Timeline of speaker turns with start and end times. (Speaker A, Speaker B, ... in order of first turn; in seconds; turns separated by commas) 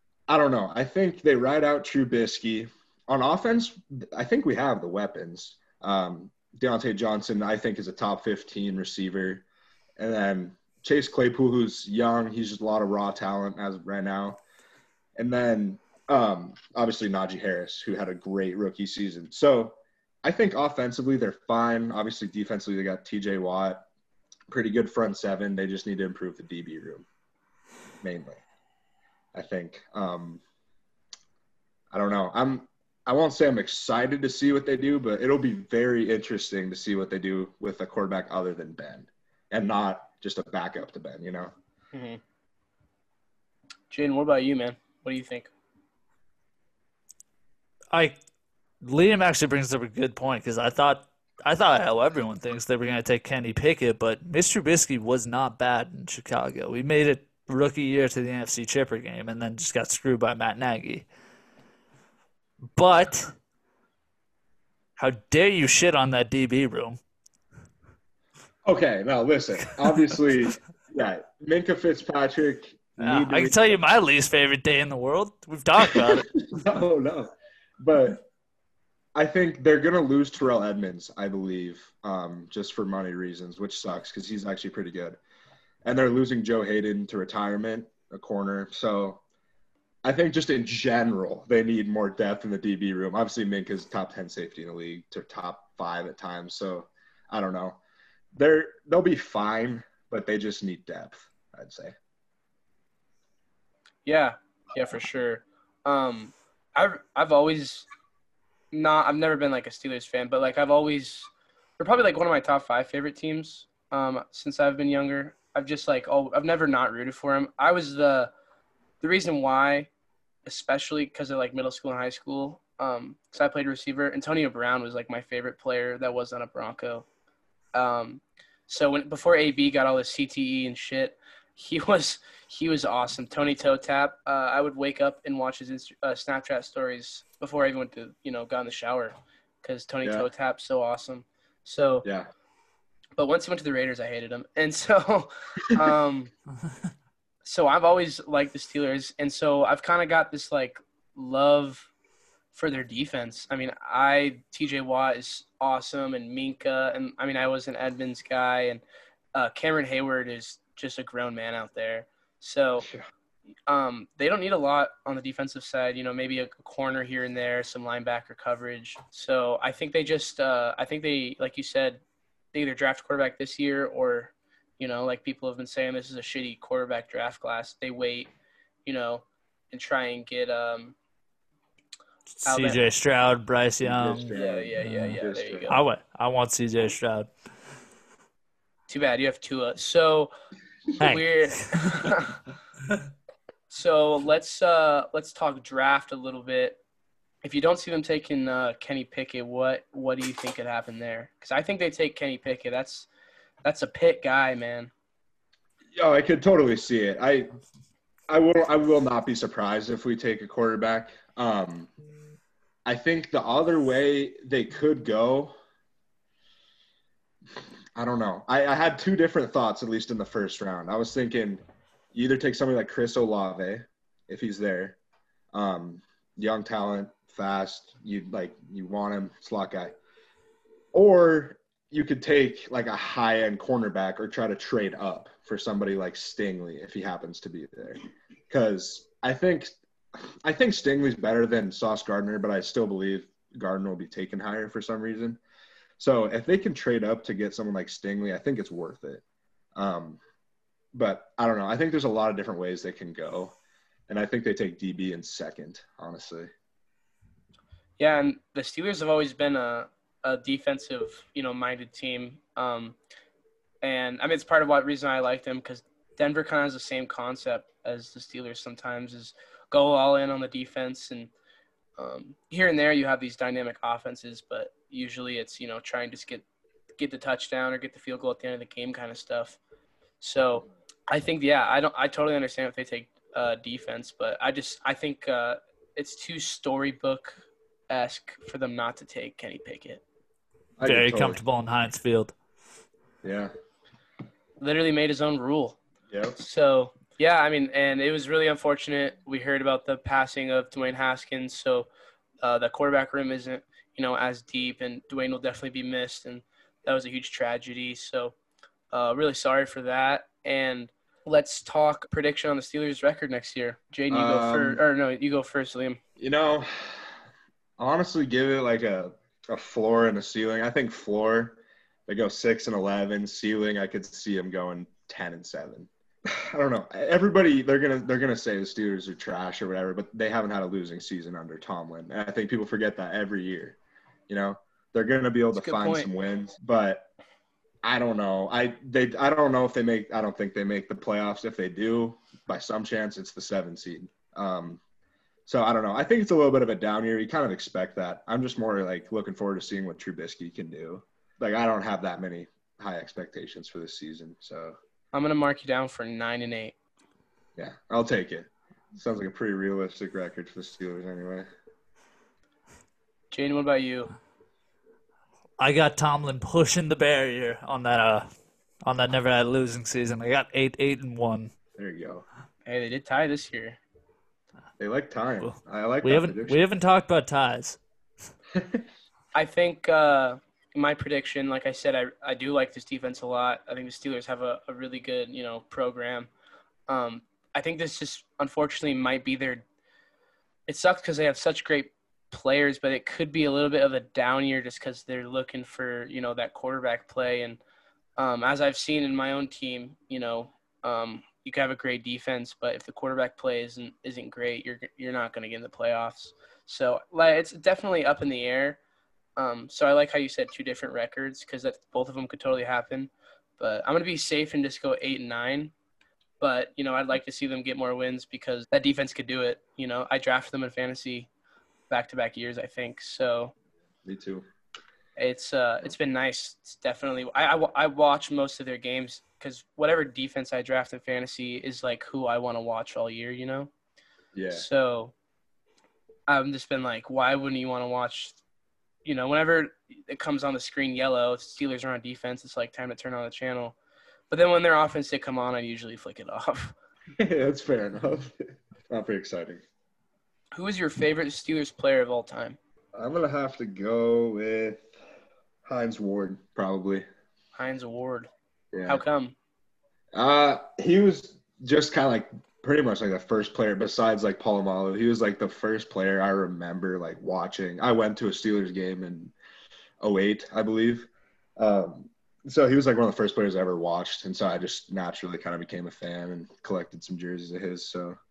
Speaker A: 0.3-9.4, Speaker A: 10.0-14.4, Speaker A: 15.2-23.9, Speaker A: 24.5-27.1, Speaker A: 28.0-28.4, Speaker A: 29.3-30.4, Speaker A: 31.9-41.5, Speaker B: 41.9-42.2, Speaker B: 43.9-45.5, Speaker C: 48.8-61.1, Speaker C: 62.8-63.3, Speaker C: 65.0-67.0, Speaker A: 68.7-73.8, Speaker C: 73.0-76.5, Speaker A: 75.8-78.2, Speaker A: 79.2-85.2, Speaker A: 85.8-89.2, Speaker A: 90.0-97.8, Speaker A: 98.3-102.0, Speaker B: 104.0-107.9, Speaker B: 108.7-111.3, Speaker B: 111.8-118.3, Speaker B: 119.0-119.9, Speaker B: 120.5-127.1, Speaker B: 127.7-142.1, Speaker A: 142.0-142.3, Speaker B: 143.2-146.3, Speaker B: 147.4-151.9, Speaker B: 152.5-158.8, Speaker B: 159.3-162.9, Speaker B: 163.7-172.0, Speaker B: 172.5-178.3, Speaker B: 178.8-180.9, Speaker C: 182.3-187.3, Speaker B: 182.4-182.8, Speaker A: 183.8-185.7, Speaker B: 184.3-185.8, Speaker B: 188.9-190.3, Speaker B: 191.0-192.4, Speaker C: 191.0-192.1, Speaker B: 193.7-196.8, Speaker B: 197.4-203.1, Speaker B: 203.7-204.9, Speaker A: 205.9-207.5, Speaker A: 208.3-211.9, Speaker A: 212.9-215.5, Speaker A: 218.0-221.6, Speaker A: 222.1-225.0, Speaker A: 225.5-230.0, Speaker A: 230.9-245.4, Speaker A: 246.0-249.2, Speaker A: 249.8-250.2, Speaker A: 250.9-253.6, Speaker A: 254.1-256.5, Speaker B: 258.0-263.0, Speaker B: 263.8-271.3, Speaker B: 272.0-276.4, Speaker B: 277.0-279.6, Speaker B: 280.2-287.4, Speaker B: 287.9-290.0, Speaker A: 290.8-291.4, Speaker C: 290.8-292.3, Speaker A: 293.2-293.5, Speaker B: 294.6-295.8, Speaker A: 296.1-296.4, Speaker B: 296.4-301.9, Speaker B: 302.4-308.4, Speaker B: 308.9-316.0, Speaker A: 314.1-314.8, Speaker A: 316.2-317.1, Speaker A: 317.8-333.8, Speaker A: 334.3-337.1, Speaker B: 335.5-336.1, Speaker A: 337.8-344.8, Speaker A: 345.5-354.8, Speaker B: 355.1-356.7, Speaker A: 357.6-361.5, Speaker B: 363.3-364.1, Speaker C: 365.6-368.3, Speaker C: 368.9-371.5, Speaker A: 371.8-372.2, Speaker B: 372.6-373.8, Speaker A: 374.8-376.6, Speaker C: 375.4-377.8, Speaker A: 378.5-378.9, Speaker B: 379.3-386.3, Speaker B: 386.9-389.6, Speaker B: 390.7-397.6, Speaker B: 398.2-408.8, Speaker B: 409.4-415.7, Speaker B: 416.4-421.3, Speaker B: 421.9-423.5, Speaker A: 424.1-424.5, Speaker B: 425.2-433.7, Speaker A: 434.4-434.7, Speaker B: 434.5-435.1, Speaker B: 436.3-438.4, Speaker B: 439.1-443.8, Speaker B: 444.3-446.7, Speaker A: 447.2-449.6, Speaker B: 450.5-452.6, Speaker A: 452.9-454.9, Speaker A: 455.6-457.1, Speaker B: 457.6-458.3, Speaker A: 458.7-459.0, Speaker B: 458.9-459.3, Speaker A: 460.1-469.3, Speaker A: 470.0-478.2